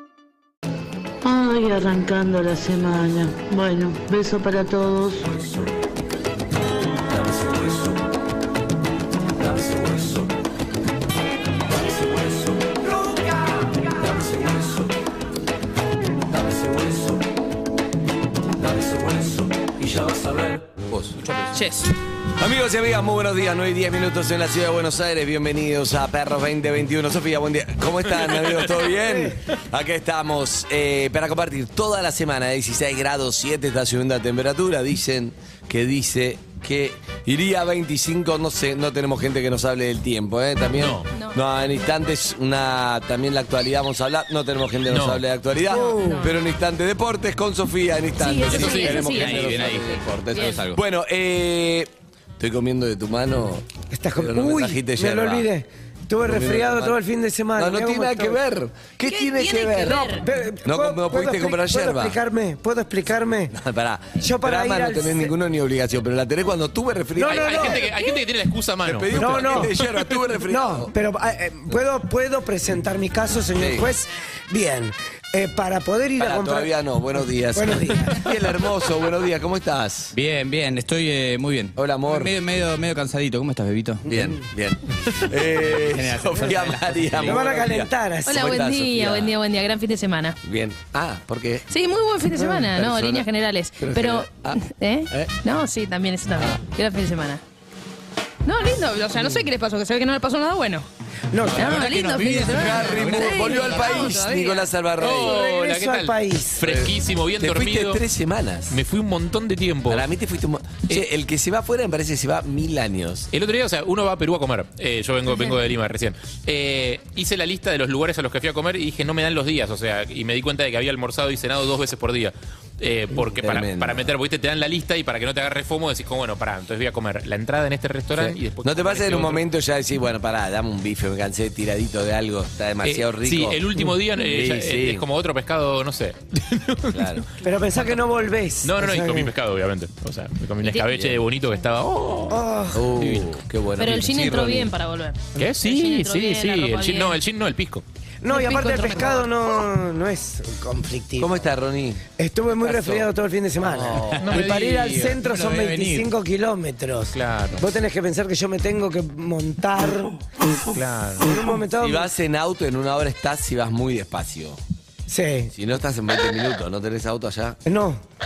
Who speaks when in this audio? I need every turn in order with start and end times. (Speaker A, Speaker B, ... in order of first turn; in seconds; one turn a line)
Speaker A: 1.2-5.5
Speaker B: 12.0-12.4
Speaker B: 14.0-14.8
Speaker B: 16.6-17.0
Speaker B: 18.7-21.5
Speaker C: 21.5-21.9
Speaker B: 22.4-55.5
Speaker D: 28.4-28.7
Speaker E: 29.0-29.3
Speaker D: 40.7-41.0
Speaker C: 41.1-41.4
Speaker D: 44.9-45.2
Speaker E: 45.7-46.3
Speaker C: 45.7-46.3
Speaker C: 48.2-50.6
Speaker F: 48.5-50.8
Speaker D: 48.5-49.0
Speaker E: 53.9-58.4
Speaker B: 56.2-57.0
Speaker B: 57.5-60.1
Speaker C: 59.0-60.2
Speaker E: 59.8-63.5
Speaker B: 60.6-62.2
Speaker B: 63.5-67.8
Speaker E: 64.2-65.3
Speaker E: 67.1-67.9
Speaker D: 67.3-70.2
Speaker B: 68.8-70.9
Speaker E: 69.1-69.7
Speaker E: 70.5-78.3
Speaker B: 73.6-73.8
Speaker B: 76.2-80.1
Speaker F: 80.1-84.4
Speaker B: 81.8-82.4
Speaker B: 84.1-89.3
Speaker F: 85.4-87.4
Speaker E: 87.2-88.6
Speaker C: 88.2-90.4
Speaker B: 90.4-91.7
Speaker C: 91.7-97.4
Speaker B: 92.4-93.3
Speaker B: 93.8-95.3
Speaker C: 98.4-100.9
Speaker B: 99.2-99.5
Speaker E: 101.3-101.7
Speaker F: 101.5-103.7
Speaker C: 101.5-104.7
Speaker B: 102.5-105.3
Speaker D: 105.0-108.0
Speaker E: 105.0-106.7
Speaker B: 106.6-108.8
Speaker D: 108.7-110.1
Speaker B: 109.9-113.3
Speaker D: 113.3-129.4
Speaker B: 123.1-124.1
Speaker B: 128.1-133.6
Speaker D: 132.8-137.2
Speaker B: 134.2-135.0
Speaker B: 136.9-137.2
Speaker E: 137.4-139.3
Speaker D: 138.6-142.4
Speaker B: 140.8-141.2
Speaker E: 142.3-143.1
Speaker B: 142.7-144.7
Speaker D: 143.0-143.2
Speaker C: 143.8-147.1
Speaker D: 145.3-147.8
Speaker E: 148.2-151.4
Speaker C: 148.3-149.3
Speaker B: 151.2-152.0
Speaker E: 152.2-160.6
Speaker B: 152.6-153.1
Speaker B: 153.6-154.4
Speaker D: 154.1-155.1
Speaker F: 154.9-156.1
Speaker D: 157.1-157.7
Speaker D: 160.7-161.3
Speaker E: 161.2-162.1
Speaker B: 161.8-164.6
Speaker E: 165.1-165.5
Speaker B: 165.5-167.6
Speaker E: 167.7-168.0